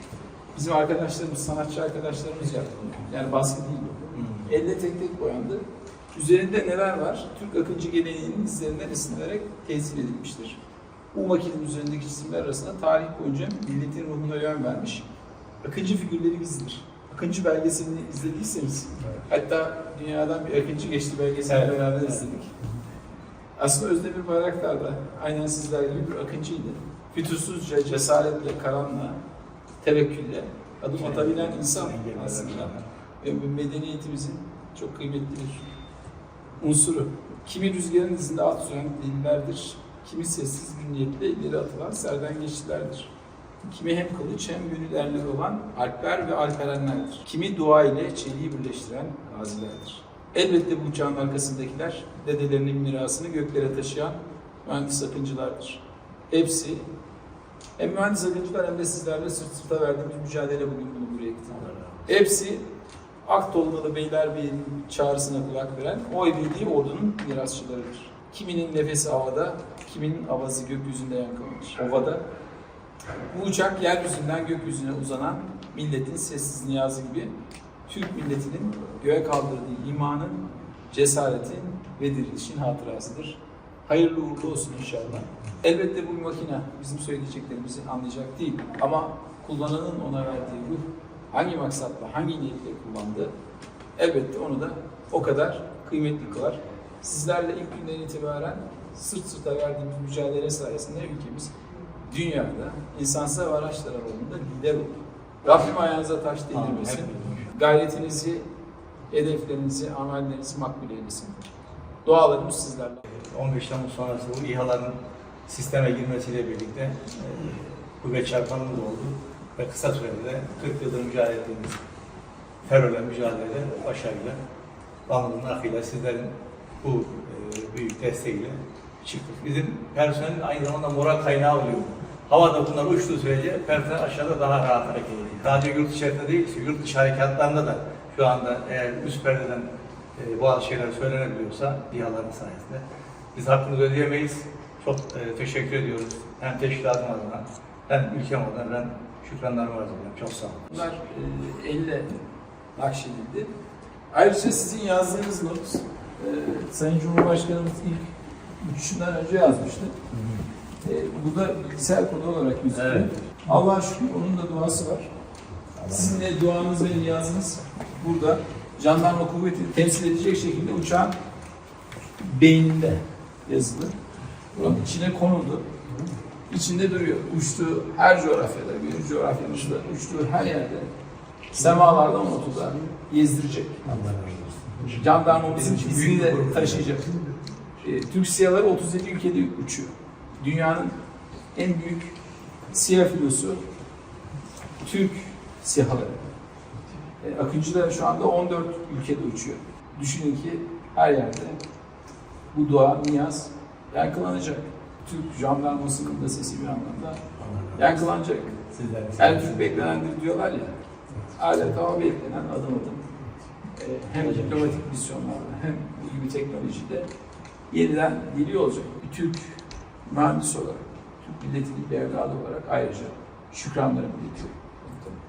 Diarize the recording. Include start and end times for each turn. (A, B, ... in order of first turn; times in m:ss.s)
0:00.5-0:05.6 A
0:04.1-0:04.5 B
0:06.1-0:10.6 A
0:11.1-0:15.0 A
0:15.6-0:22.5 A
0:21.5-0:22.2 B
0:23.6-0:29.2 A
0:29.8-0:35.7 A
0:31.0-0:32.8 B
0:36.6-0:43.1 A
0:43.6-0:56.8 A
0:57.8-1:02.6 A
1:01.6-1:02.1 B
1:03.2-1:12.2 A
1:13.3-1:17.3 A
1:17.9-1:33.3 A
1:34.0-1:41.5 A
1:42.0-1:48.4 A
1:46.5-1:47.5 B
1:49.1-1:51.5 A
1:52.0-1:53.0 A
1:53.1-1:54.9 B
1:55.5-2:01.8 B
2:02.6-2:04.4 B
2:05.1-2:22.8 B
2:23.3-2:30.7 B
2:30.7-2:32.2 A
2:32.8-2:33.5 A
2:34.1-2:40.0 A
2:40.1-2:40.4 B
2:40.8-2:45.1 A
2:42.7-2:43.1 B
2:45.8-2:51.2 A
2:52.2-2:53.9 A
2:54.5-2:55.6 A
2:56.5-3:00.9 A
3:01.5-3:04.0 A
3:03.9-3:04.9 B
3:04.8-3:07.1 A
3:05.4-3:07.2 B
3:07.8-3:10.9 A
3:11.5-3:12.1 A
3:12.7-3:13.6 A
3:14.8-3:16.2 A
3:17.2-3:21.6 A
3:22.5-3:28.6 A
3:27.4-3:28.0 B
3:28.7-3:29.9 B
3:29.2-3:30.7 A
3:31.3-3:33.1 A
3:33.8-3:37.1 A
3:34.2-3:34.8 B
3:37.7-3:45.2 A